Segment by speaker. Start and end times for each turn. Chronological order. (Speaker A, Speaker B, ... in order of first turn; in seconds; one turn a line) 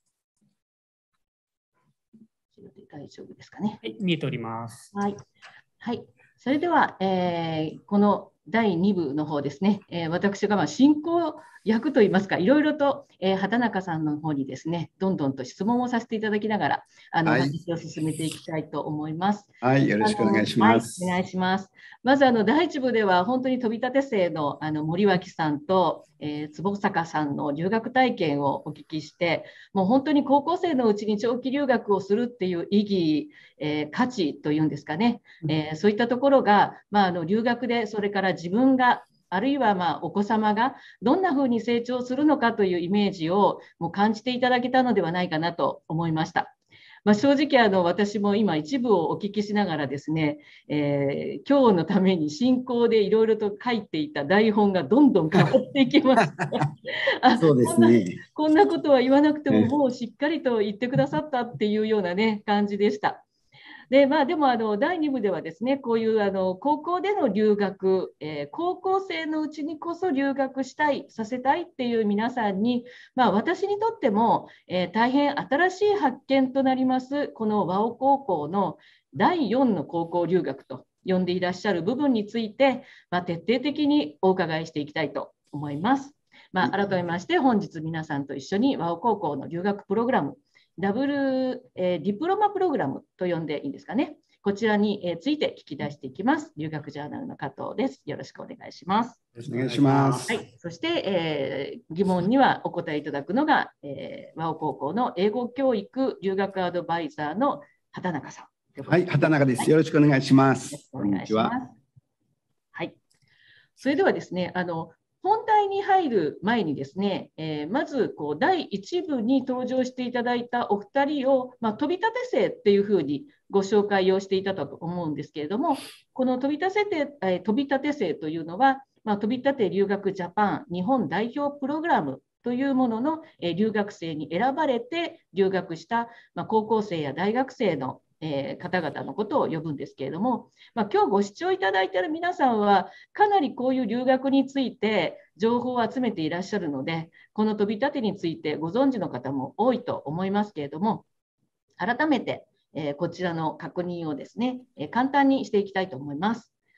Speaker A: 2.5-3.8
Speaker B: 3.8-4.9
Speaker A: 4.9-5.2
Speaker A: 5.8-46.5
Speaker C: 17.2-17.5
Speaker C: 19.6-21.1
Speaker A: 47.1-63.2
Speaker C: 57.4-58.2
Speaker A: 63.9-99.2
Speaker B: 99.4-100.3
Speaker C: 99.5-100.3
Speaker A: 100.3-109.7
Speaker C: 108.9-111.5
Speaker A: 110.7-111.7
Speaker A: 113.8-151.1
Speaker A: 151.8-156.5